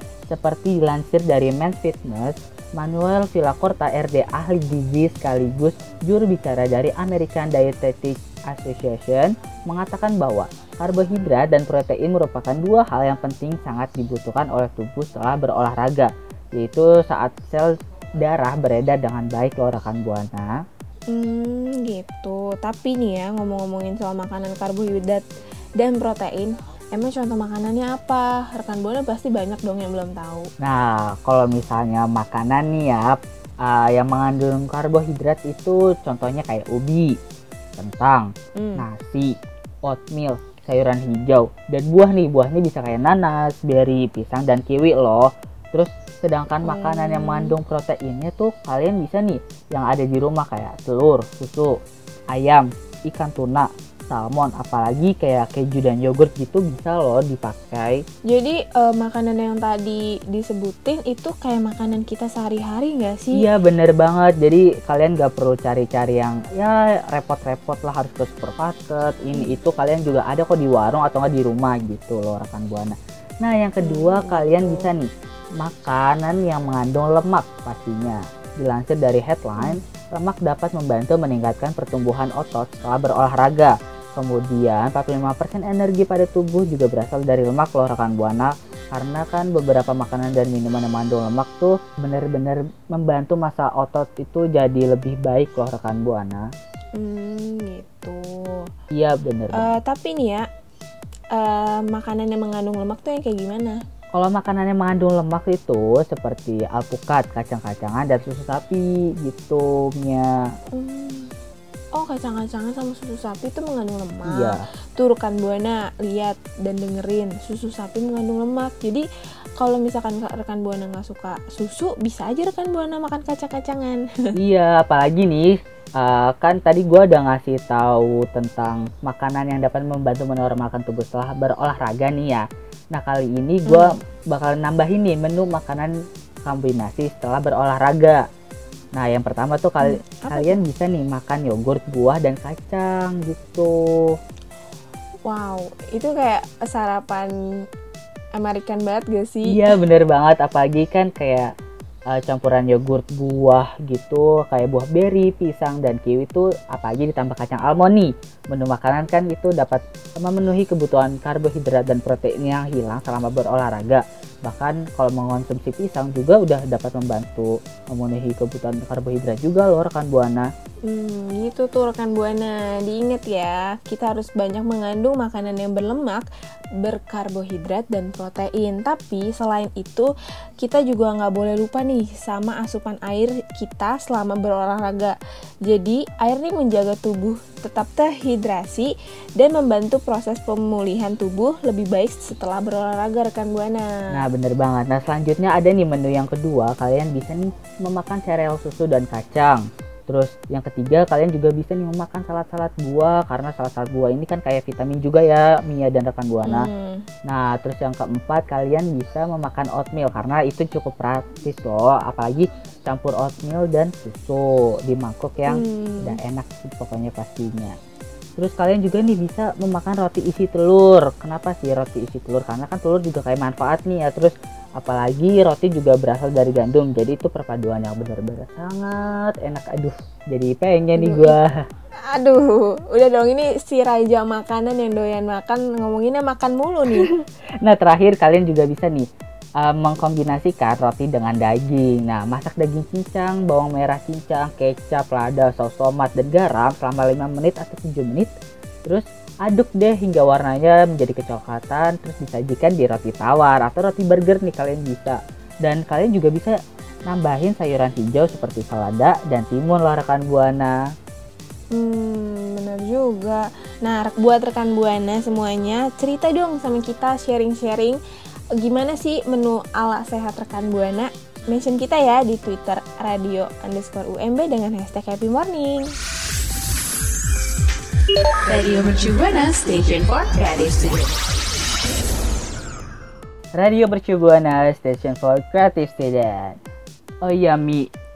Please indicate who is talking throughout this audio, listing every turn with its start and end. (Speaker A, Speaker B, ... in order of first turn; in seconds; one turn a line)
Speaker A: 0.3-20.6
Speaker B: 21.1-25.2
Speaker B: 25.8-30.5
Speaker A: 30.6-37.2
Speaker A: 37.8-51.8
Speaker B: 38.5-38.8
Speaker B: 46.6-47.5
Speaker A: 52.3-58.0
Speaker B: 58.3-63.4
Speaker A: 63.3-75.0
Speaker B: 73.8-74.9
Speaker A: 75.6-96.5
Speaker B: 97.0-98.7
Speaker A: 98.9-99.7
Speaker B: 99.5-100.4
Speaker B: 101.3-103.8
Speaker A: 104.1-110.4
Speaker B: 110.7-111.3
Speaker B: 111.9-119.0
Speaker A: 114.2-114.6
Speaker B: 119.6-124.3
Speaker A: 124.3-138.2
Speaker B: 133.7-133.9
Speaker A: 138.9-144.1
Speaker B: 139.8-140.6
Speaker B: 145.2-147.3
Speaker B: 148.3-149.7
Speaker A: 149.4-151.5
Speaker A: 152.1-170.5
Speaker B: 170.9-176.2
Speaker B: 176.8-180.1
Speaker B: 180.6-194.0
Speaker A: 194.1-206.7
Speaker B: 206.4-207.1
Speaker A: 207.2-217.8
Speaker B: 215.5-216.2
Speaker A: 218.4-231.7
Speaker B: 230.9-231.4
Speaker B: 232.1-237.1
Speaker A: 236.9-239.1
Speaker A: 239.6-248.3
Speaker A: 248.8-256.6
Speaker A: 257.1-260.8
Speaker B: 261.7-268.0
Speaker B: 268.5-275.9
Speaker C: 278.4-281.2
Speaker A: 283.5-286.6
Speaker A: 287.2-287.9